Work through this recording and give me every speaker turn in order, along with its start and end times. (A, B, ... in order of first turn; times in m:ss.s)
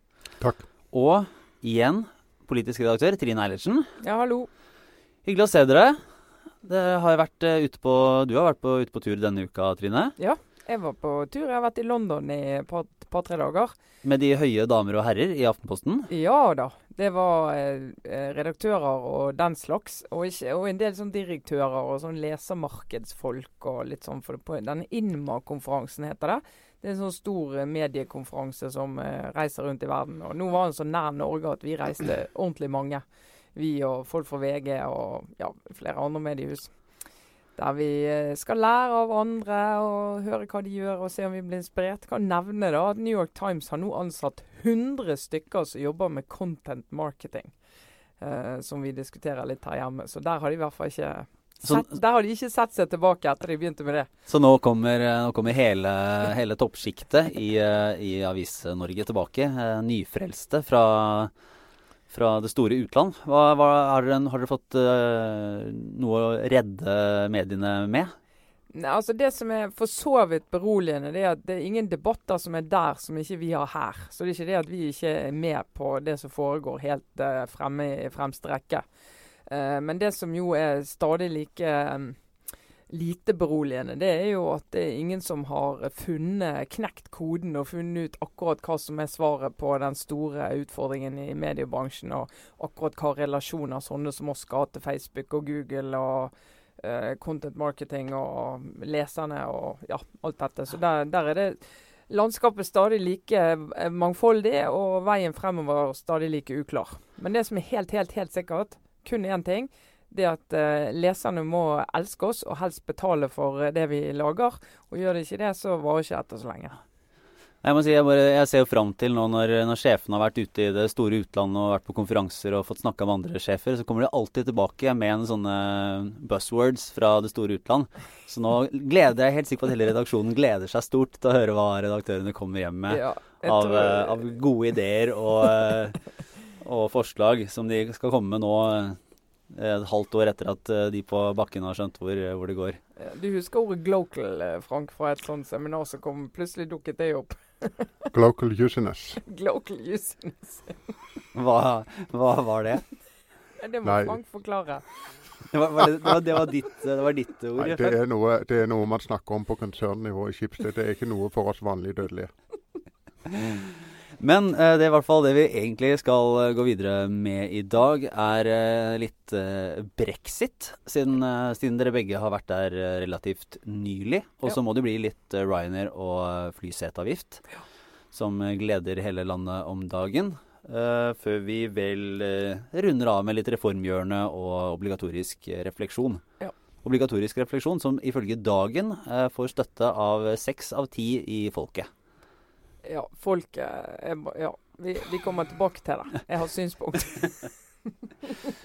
0:00.9-0:03.9 A
0:04.0-0:04.5 B
0:05.2-0:06.0 A
0:06.6-0:10.2 A
0:10.2-0:13.7 B
0:14.0-0:16.1 A
0:16.1-0:33.0 B
0:33.6-0:36.7 B
0:37.6-0:47.5 B
0:48.2-0:54.1 B
0:54.3-1:01.3 A
1:02.1-1:08.1 A
1:08.7-1:18.8 B
1:19.5-1:22.2 B
1:22.9-1:56.8 B
1:57.6-2:16.0 A
2:12.9-2:14.2 B
2:16.6-2:19.0 A
2:19.5-2:22.8 A
2:23.0-2:27.9 B
2:28.1-2:29.2 C
2:29.2-2:30.8 B
2:31.3-2:32.8 A
2:33.6-2:34.8 B
2:33.8-2:34.2 C
2:35.5-2:38.0 A
2:37.6-2:42.3 C
2:43.3-2:57.4 A
2:58.1-3:06.2 A
3:06.8-3:11.9 A
3:12.8-3:17.5 B